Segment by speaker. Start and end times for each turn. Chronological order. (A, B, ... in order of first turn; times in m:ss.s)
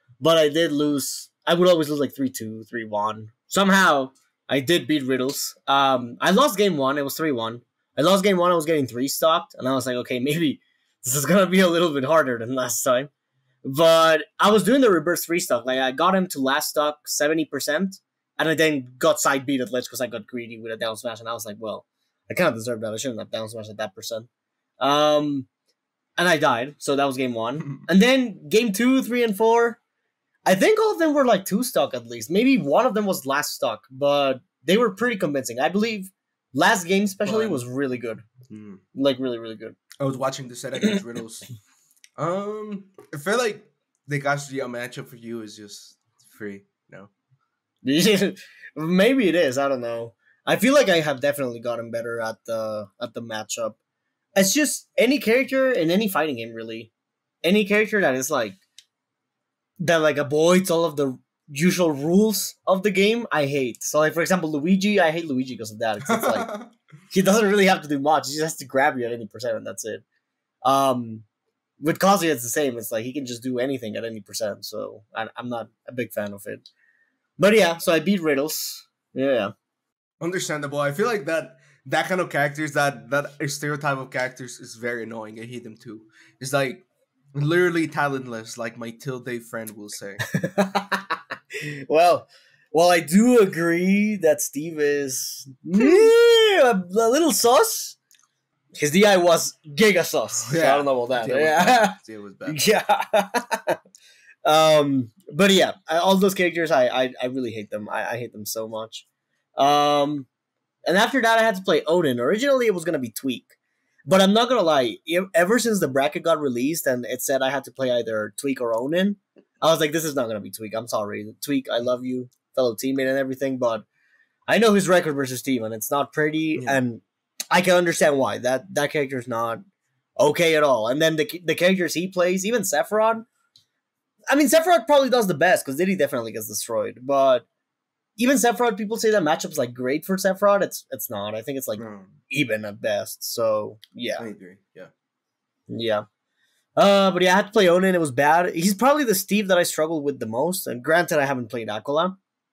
0:00.2-0:13.1 A
0:13.6-0:24.3 A
0:24.8-0:25.5 A
0:26.2-0:29.8 A
0:27.6-0:27.9 B
0:30.4-0:38.2 A
0:37.2-0:37.6 B
0:38.5-0:38.8 B
0:38.9-0:39.8 A
0:40.0-0:41.5 B
0:42.2-0:47.1 B
0:47.8-0:53.8 A
0:54.4-0:56.9 A
0:57.4-0:58.6 A
0:59.8-1:06.5 A
1:06.1-1:06.7 B
1:07.1-1:10.0 A
1:10.6-1:11.2 A
1:11.8-1:16.7 A
1:17.4-1:19.5 A
1:20.2-1:30.2 B
1:30.3-1:38.0 A
1:35.7-1:36.1 B
1:38.8-1:43.8 A
1:40.4-1:42.6 B
1:44.4-1:49.0 A
1:49.6-1:50.3 A
1:50.8-1:53.5 A
1:54.0-2:03.8 A
2:04.5-2:09.6 A
2:06.6-2:06.8 B
2:10.2-2:13.2 A
2:14.3-2:17.5 A
2:18.2-2:24.3 A
2:21.8-2:22.2 B
2:24.2-2:24.9 B
2:25.7-2:26.0 A
2:26.8-2:32.2 A